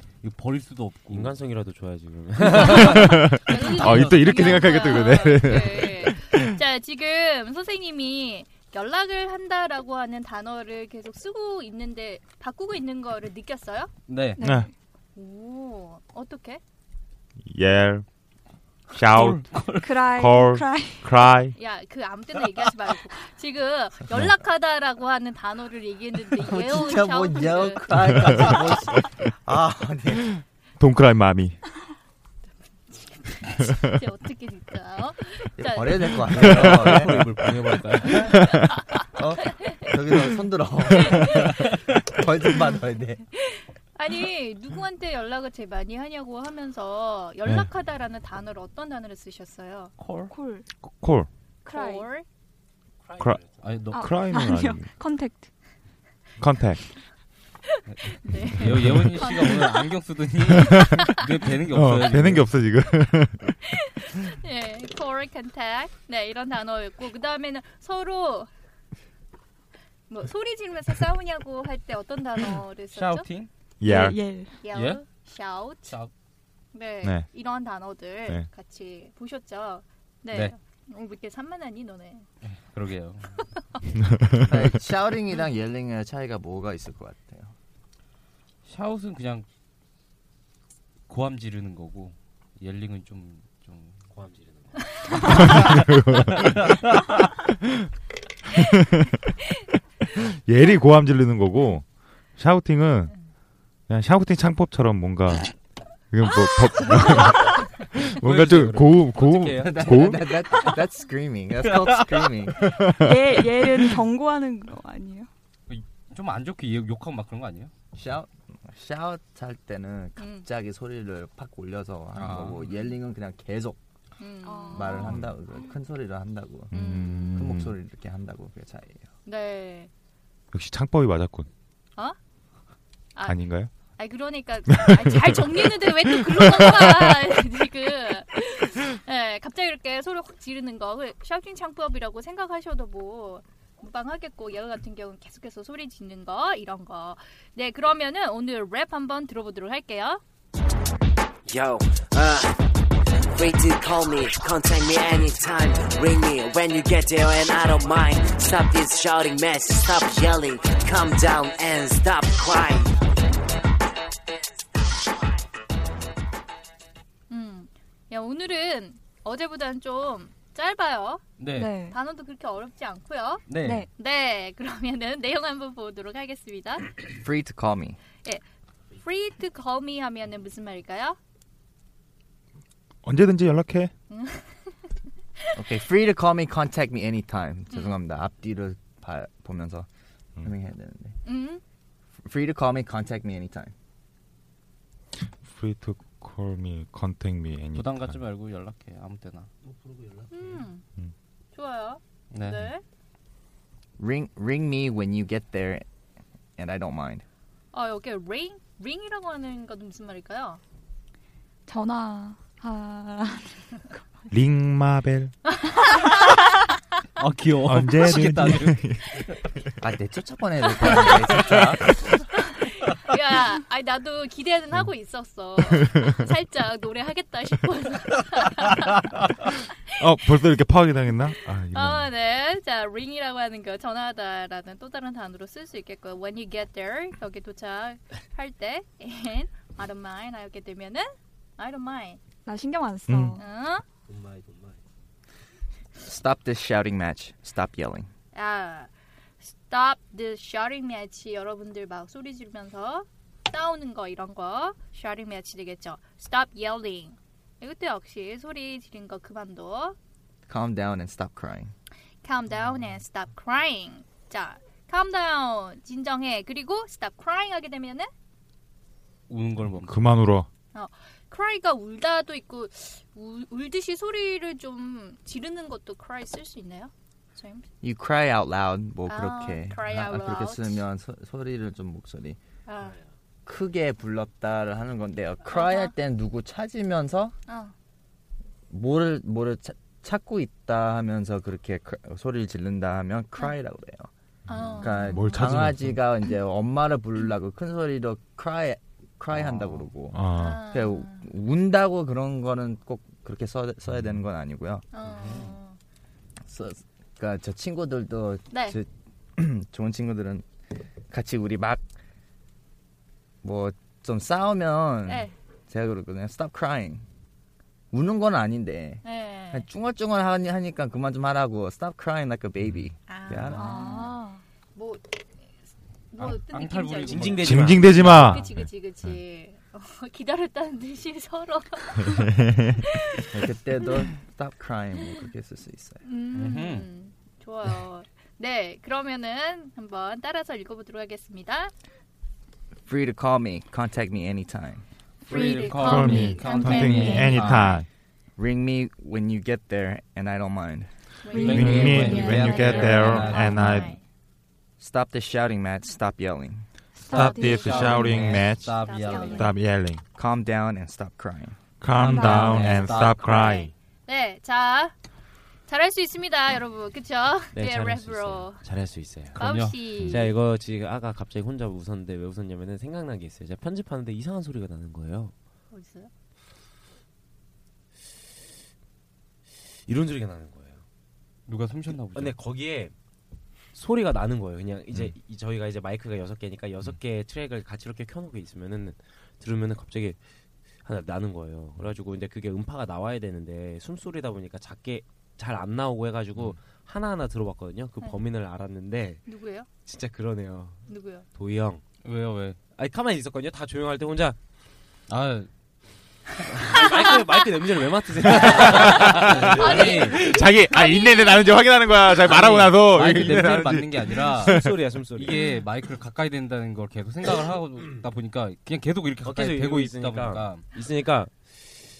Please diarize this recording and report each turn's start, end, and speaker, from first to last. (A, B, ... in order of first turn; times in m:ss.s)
0:00.2-0:01.4 A
0:01.1-0:03.0 B
0:02.5-0:13.9 C
0:02.6-0:06.6 D
0:03.7-0:04.8 A
0:14.1-0:14.4 A
0:14.4-0:14.7 E
0:15.1-0:16.6 C
0:17.4-0:18.0 D
0:18.9-0:19.6 D
0:19.1-0:20.0 A
0:19.7-0:21.1 E
0:20.2-0:21.5 D
0:21.5-0:27.8 C
0:26.4-0:30.3 F
0:30.8-0:31.6 D
0:32.9-0:36.4 C
0:35.6-0:37.3 F
0:36.4-0:38.2 A
0:38.2-0:38.5 D
0:39.1-0:43.2 F
0:41.0-0:41.5 C
0:43.4-0:49.9 C
0:50.0-0:50.3 A
0:50.3-0:50.7 E
0:50.8-0:51.3 D
0:51.6-0:52.1 E
0:51.6-0:52.2 C
0:53.0-0:53.6 B
0:53.2-0:54.9 D
0:53.5-0:54.0 A
0:53.9-0:55.5 E
0:56.4-0:56.8 D
0:57.7-0:59.7 C
0:57.9-1:02.5 A
0:58.6-0:59.1 D
0:59.2-0:59.5 E
1:00.6-1:03.6 D
1:04.1-1:08.5 C
1:10.1-1:13.3 C
1:12.9-1:13.5 A
1:13.8-1:14.2 D
1:13.8-1:14.6 E
1:14.6-1:16.0 C
1:14.7-1:15.0 A
1:15.8-1:16.1 A
1:16.7-1:22.2 C
1:17.0-1:17.3 D
1:22.4-1:23.4 A
1:24.5-1:27.5 F
1:28.6-1:29.4 A
1:31.1-1:34.0 A
1:34.1-1:35.2 B
1:35.1-1:35.8 A
1:35.2-1:36.6 D
1:36.4-1:36.8 A
1:38.5-1:39.1 D
1:40.2-1:41.8 D
1:42.4-1:43.1 D
1:43.9-1:45.5 D
1:46.1-1:50.3 D
1:48.2-1:49.8 B
1:49.6-1:52.8 F
1:52.7-1:53.2 D
1:52.9-1:55.3 E
1:55.7-1:57.7 A
1:57.9-2:03.8 F
2:00.2-2:00.5 C
2:02.1-2:02.6 A
2:04.2-2:05.1 C
2:04.4-2:05.2 E
2:04.7-2:06.8 F
2:06.7-2:07.7 D
2:06.7-2:07.4 C
2:07.3-2:09.0 F
2:09.2-2:09.9 C
2:10.5-2:11.5 D
2:13.1-2:13.4 C
2:13.2-2:13.7 D
2:14.0-2:30.2 C
2:14.7-2:15.0 D
2:31.5-2:32.5 G
2:33.4-2:42.9 G
2:47.3-2:53.4 C
2:51.4-2:51.7 A
2:51.5-2:52.0 E
2:53.5-2:53.8 A
2:53.6-2:53.9 E
2:53.9-2:56.9 C
2:57.1-2:58.0 F
2:59.0-3:01.2 C
3:03.0-3:03.9 D
3:04.1-3:04.8 C
3:05.5-3:09.9 F
3:07.7-3:08.0 C
3:10.4-3:11.2 F
3:11.2-3:11.6 C
3:12.2-3:13.7 F
3:15.2-3:18.2 D
3:17.7-3:19.5 A
3:19.7-3:20.6 B
3:20.3-3:20.8 C
3:21.5-3:22.8 C
3:22.3-3:22.7 A
3:24.0-3:25.8 F
3:26.6-3:27.2 F
3:27.7-3:30.6 C
3:31.7-3:33.9 E
3:34.3-3:35.3 D
3:35.8-3:36.0 C
3:37.2-3:38.8 A
3:37.6-3:39.1 D
3:39.8-3:41.8 F
3:40.8-3:41.6 C
3:42.3-3:49.6 C
3:50.0-3:52.1 D
3:51.7-4:02.2 C
4:02.4-4:03.4 E
4:03.1-4:03.4 D
4:03.4-4:03.8 C
4:04.1-4:04.8 B
4:06.0-4:08.1 F
4:08.3-4:20.0 C
4:20.5-4:21.7 F
4:22.2-4:28.1 C
4:29.3-4:30.1 A
4:29.7-4:30.5 D
4:30.7-4:37.6 C
4:37.8-4:42.4 F
4:39.1-4:40.8 C
4:42.6-4:43.0 C
4:43.4-4:47.3 F
4:45.5-4:45.9 C
4:47.5-4:47.7 C
4:48.7-4:54.1 F
4:54.5-4:55.4 C
4:54.5-4:56.0 D
4:54.8-5:04.8 F
4:59.4-5:00.6 D
5:00.4-5:01.2 C
5:04.9-5:05.8 C
5:05.0-5:05.5 A
5:06.5-5:10.4 F
5:08.5-5:08.8 C
5:11.1-5:11.8 F
5:13.4-5:17.0 F
5:15.0-5:15.3 C
5:17.9-5:23.7 F
5:19.0-5:19.6 C
5:23.1-5:25.2 C
5:23.5-5:24.4 E
5:26.1-5:32.4 C
5:26.2-5:28.4 A
5:27.0-5:28.3 B
5:27.4-5:29.1 D
5:33.3-5:36.0 F
5:36.0-5:41.7 C
5:36.3-5:36.9 A
5:42.8-5:44.8 F
5:45.2-5:47.8 C
5:45.2-5:47.7 A
5:45.7-5:47.8 D
5:46.5-5:47.4 E
5:48.4-5:50.9 F
5:51.2-5:54.0 C
5:51.3-5:51.6 E
5:51.3-5:53.8 A
5:51.5-5:53.9 D
5:54.8-5:56.6 F
5:57.0-5:57.7 E
5:57.1-5:59.5 C
5:57.1-6:00.0 D
5:57.2-5:59.5 A
6:00.1-6:01.6 F
6:01.8-6:03.7 D
6:01.9-6:02.9 E
6:02.1-6:03.7 A
6:04.0-6:04.9 C
6:05.7-6:08.6 C
6:07.5-6:15.3 B
6:09.3-6:10.2 A
6:09.3-6:10.2 C
6:15.7-6:16.1 C
6:19.8-6:20.8 B
6:21.5-6:22.4 A
6:22.1-6:22.9 B
6:23.7-6:30.2 B
6:30.8-6:39.2 B
6:39.2-6:39.7 C
6:39.8-6:41.8 B
6:40.9-6:41.2 C
6:42.0-6:42.6 A
6:42.7-6:44.4 B
6:45.1-6:45.5 A
6:46.5-6:50.0 B
6:48.4-6:54.8 D
6:48.9-6:50.3 A
6:49.5-6:51.5 C
6:52.2-7:00.6 A
6:54.4-6:55.4 B
6:59.2-7:01.3 B